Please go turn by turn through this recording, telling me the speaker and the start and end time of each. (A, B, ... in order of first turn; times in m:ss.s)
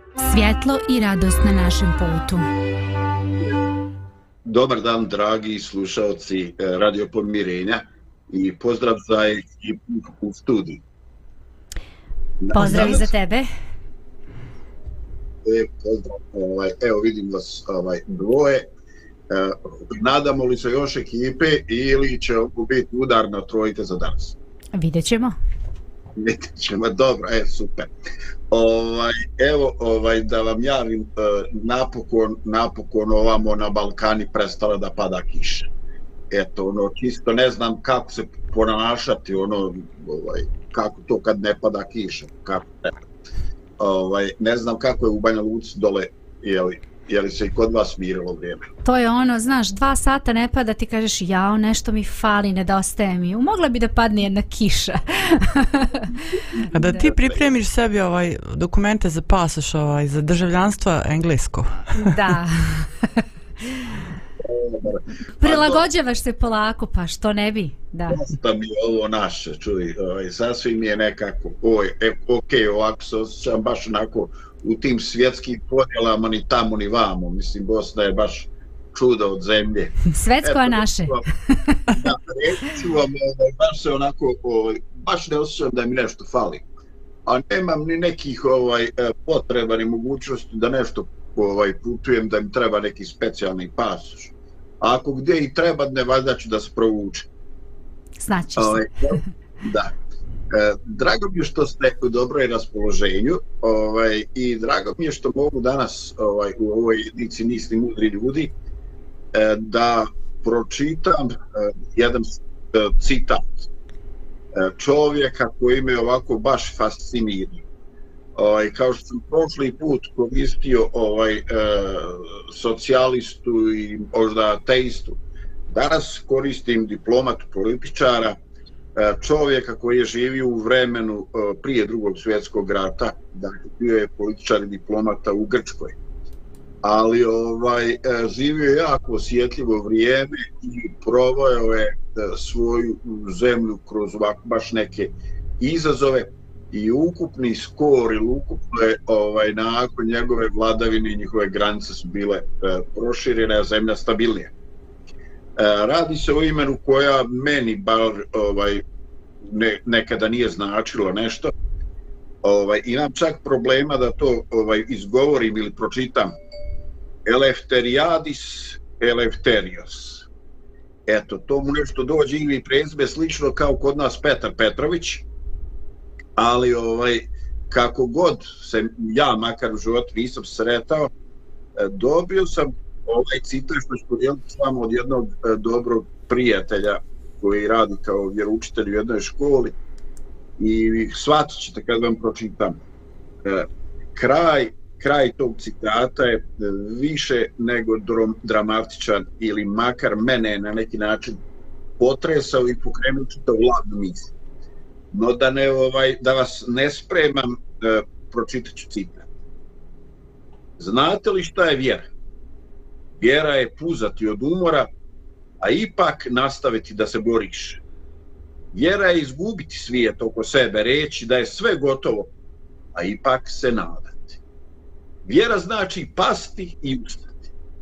0:00.2-0:02.5 A
0:04.4-0:10.8 B
0:12.4-0:13.1 B
0:12.5-0:13.5 A
0:15.4-0:18.7 B
0:19.3-0:24.4 B
0:24.7-0:25.4 A
0:26.2-0:27.9 B
0:28.5-0:35.7 B
0:36.3-0:43.0 B
0:43.8-0:48.7 B
0:48.8-0:56.2 A
0:56.7-1:02.2 C
0:56.9-0:57.5 B
1:02.0-1:03.2 A
1:04.4-1:05.8 B
1:05.4-1:08.2 A
1:08.1-1:21.3 B
1:20.1-1:21.9 A
1:21.9-1:26.6 B
1:27.2-1:37.3 B
1:38.2-1:38.9 A
1:38.6-1:39.9 B
1:40.5-1:48.5 B
1:49.3-1:53.6 B
1:54.5-1:57.6 B
1:58.3-2:08.4 B
2:09.0-2:16.0 B
2:16.8-2:34.5 B
2:35.6-2:38.8 B
2:39.4-2:41.5 B
2:42.4-2:46.3 B
2:47.2-2:50.3 B
2:51.1-2:55.2 B
2:56.4-3:01.1 B
3:01.8-3:09.8 B
3:10.6-3:12.8 B
3:13.4-3:21.4 B
3:22.0-3:24.3 B
3:25.1-3:29.2 B
3:30.8-3:32.1 B
3:33.2-3:34.9 B
3:35.6-3:37.8 B
3:38.7-3:42.3 B
3:42.9-3:44.4 B
3:45.2-3:47.4 B